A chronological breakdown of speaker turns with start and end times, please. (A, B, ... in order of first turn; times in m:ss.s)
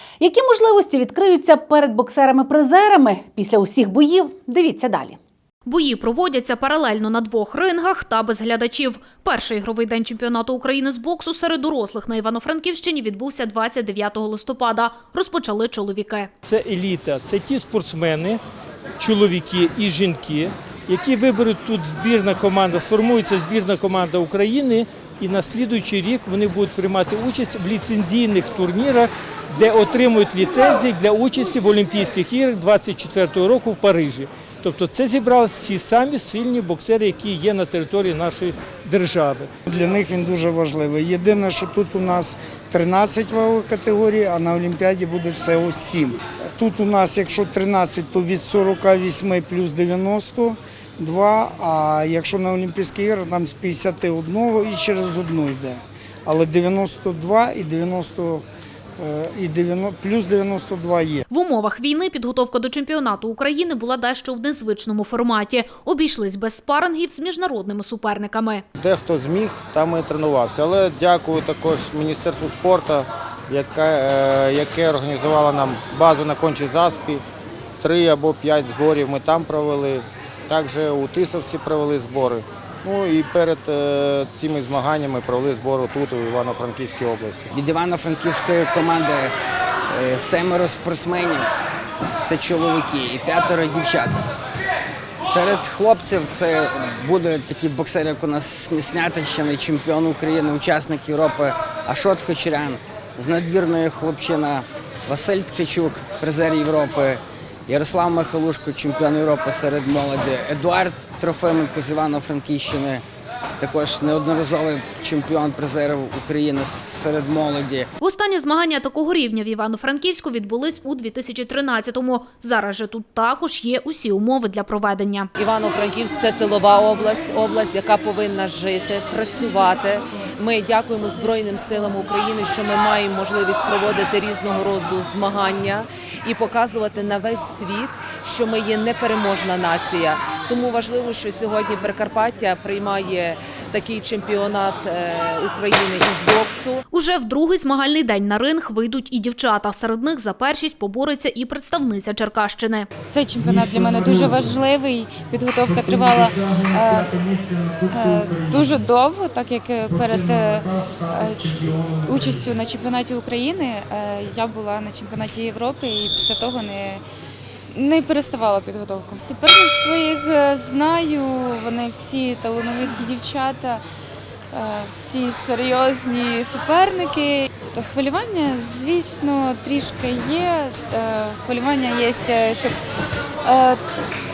0:00.2-0:05.2 A
0:05.6-0:16.3 B
0:16.4-0:18.4 C
0:19.0-0:39.5 C
0:39.7-0:58.4 D
0:59.0-1:01.2 D
1:01.3-1:08.6 B
1:08.8-1:17.2 E
1:17.8-1:27.5 E
1:27.5-1:29.3 F
1:29.9-1:31.5 F
1:32.2-1:34.2 F
1:35.2-1:53.0 F
1:53.6-1:57.9 F
1:58.0-2:05.3 B
2:05.4-2:26.8 G
2:26.9-2:32.9 B
2:33.1-2:47.0 H
2:47.7-2:53.8 H
2:54.5-3:02.8 H
3:03.4-3:03.9 H